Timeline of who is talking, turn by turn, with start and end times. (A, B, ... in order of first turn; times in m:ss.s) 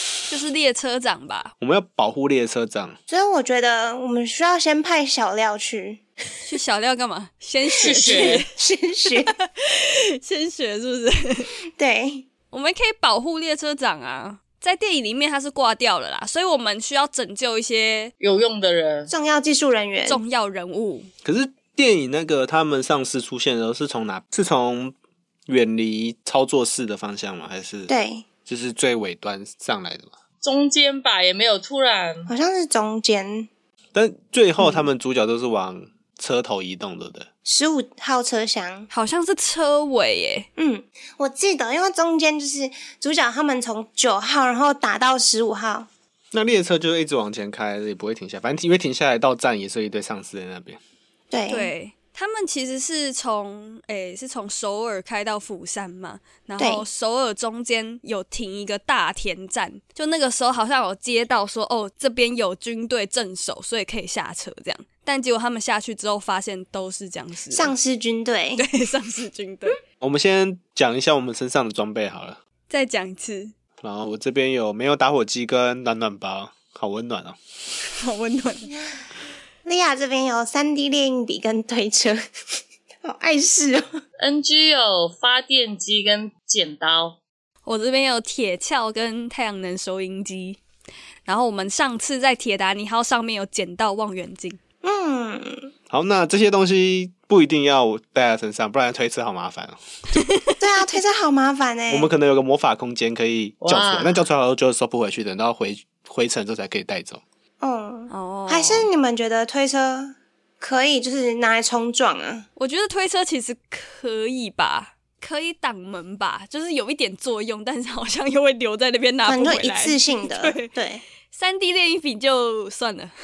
0:00.3-0:01.5 A
0:01.6-0:03.0 B
0:03.1-0:06.0 C
0:06.4-0:08.5 A
0:07.8-0:09.3 C
0:07.8-0:08.4 D
0:09.3-0:11.5 A
0:11.7-0:12.2 C
0:12.5-0:18.1 A
0:18.2-0:19.1 D
0:19.1-0:20.2 C
0:20.1-0:21.1 A
0:21.2-0:24.9 B
0:25.5-0:27.9 B
0:27.9-0:28.2 C
0:28.4-0:30.1 B
0:30.4-0:32.3 D
0:32.3-0:33.5 C
0:33.9-0:37.3 B
0:37.4-0:38.9 C
0:38.9-0:40.5 A
0:40.6-0:45.9 C
0:46.3-0:50.8 B
0:51.3-0:51.7 C
0:51.5-1:07.7 A
0:56.6-0:56.8 C
1:07.5-1:08.6 C
1:08.6-1:09.8 A
1:10.0-1:12.4 B
1:12.7-1:13.5 A
1:13.8-1:17.4 B
1:18.0-1:18.7 A
1:19.6-1:22.2 C
1:23.0-1:23.8 C
1:24.2-1:27.2 D
1:27.6-1:30.6 A
1:31.2-1:34.6 A
1:34.8-1:35.7 C
1:35.9-1:39.8 B
1:40.1-1:40.6 A
1:40.6-1:42.1 C
1:41.9-1:47.2 B
1:43.6-1:44.2 D
1:47.6-1:52.5 C
1:48.1-1:48.9 A
1:52.6-2:00.7 A
1:59.2-2:01.0 C
2:01.3-2:03.1 A